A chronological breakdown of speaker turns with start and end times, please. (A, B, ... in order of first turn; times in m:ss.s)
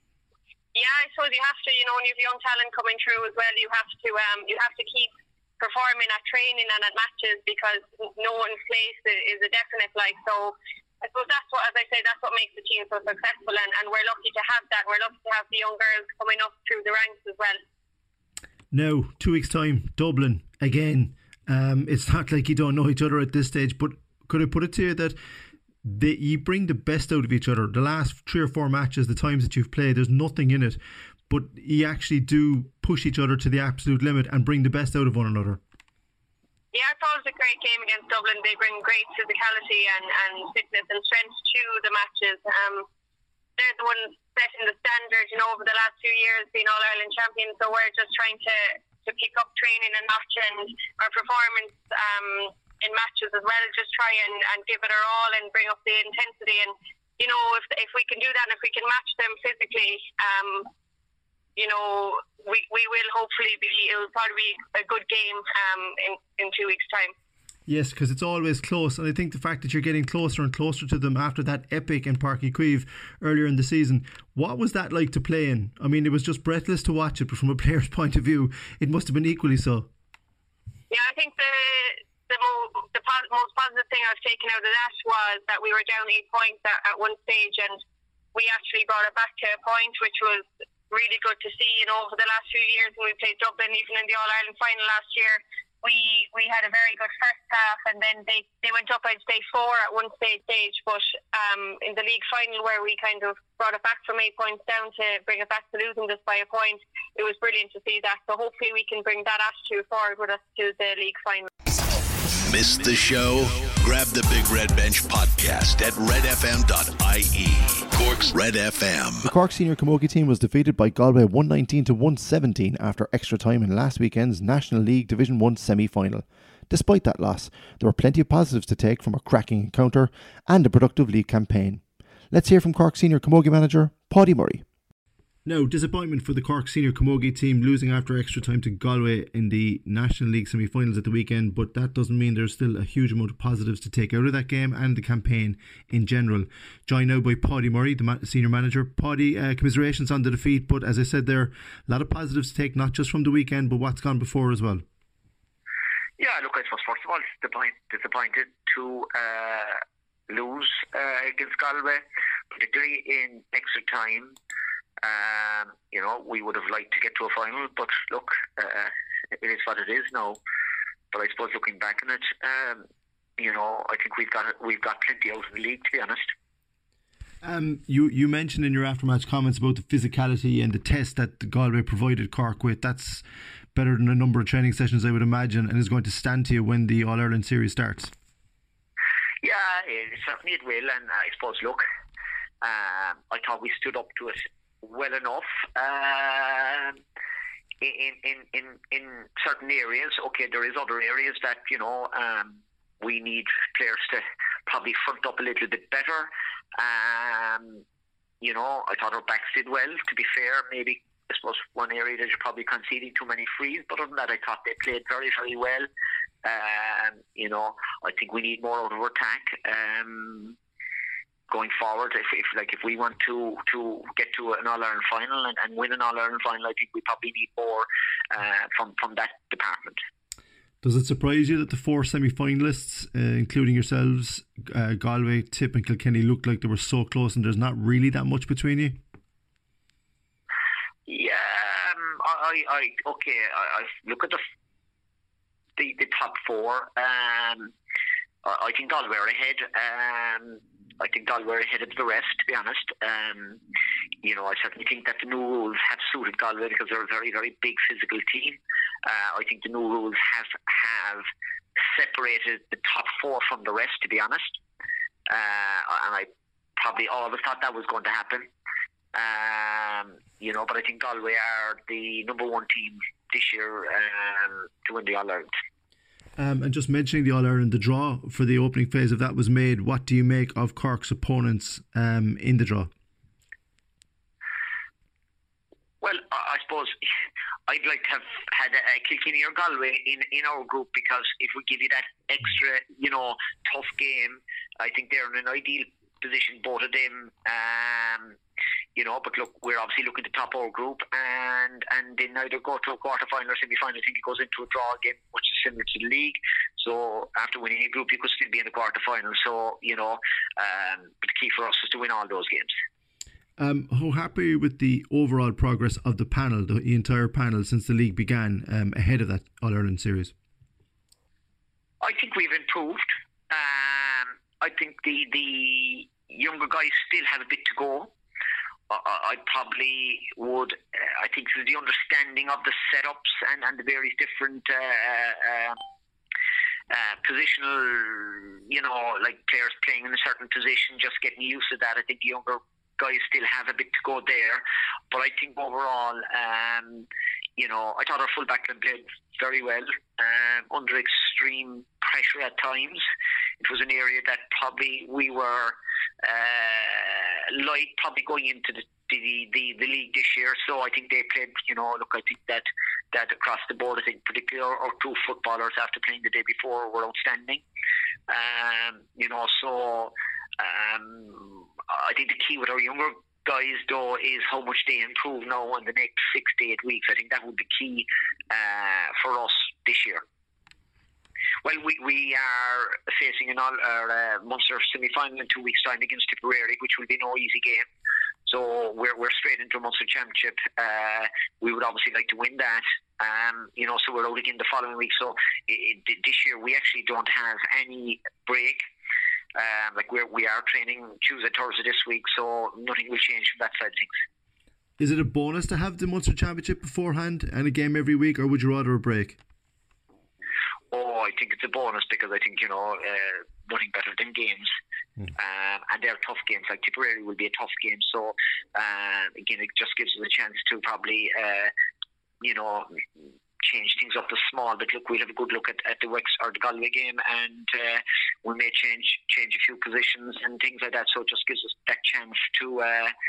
0:00.7-0:17.6 A
0:18.7-0:25.2 B
0:25.8-0:35.6 B
0:36.7-0:42.9 A
0:43.6-1:00.7 A
1:01.6-1:07.1 A
1:07.7-1:19.9 B
1:20.9-1:27.8 A
1:28.3-1:51.5 A
1:52.4-1:59.3 C
1:59.3-2:14.6 D
2:15.4-2:34.8 B
2:36.2-2:44.4 E
2:45.0-2:50.4 E
2:51.1-2:52.8 E
2:53.4-2:56.3 E
2:57.4-3:08.1 B
3:09.4-3:11.8 E
3:12.6-3:17.0 E
3:17.8-3:27.8 E
3:28.4-3:35.9 E
3:36.4-3:40.6 E
3:41.5-3:50.0 E
3:50.8-3:59.0 B
4:01.1-4:04.4 E
4:05.8-4:07.7 E
4:08.4-4:13.6 E
4:14.2-4:21.2 E
4:21.8-4:24.5 E
4:25.3-4:28.5 E
4:29.1-4:35.5 E
4:36.4-4:42.9 B
4:46.0-4:47.0 E
4:47.7-4:58.4 E
4:59.0-5:12.7 E
5:13.6-5:20.3 B
5:22.0-5:28.1 E
5:28.9-5:35.8 E
5:36.9-5:53.0 E
5:53.6-6:07.6 E
6:08.3-6:20.2 E
6:21.6-6:27.8 E
6:28.5-6:38.8 E
6:39.5-6:44.1 E
6:45.0-6:49.4 B
6:50.9-6:54.7 E
6:55.3-7:01.7 E
7:02.4-7:13.1 E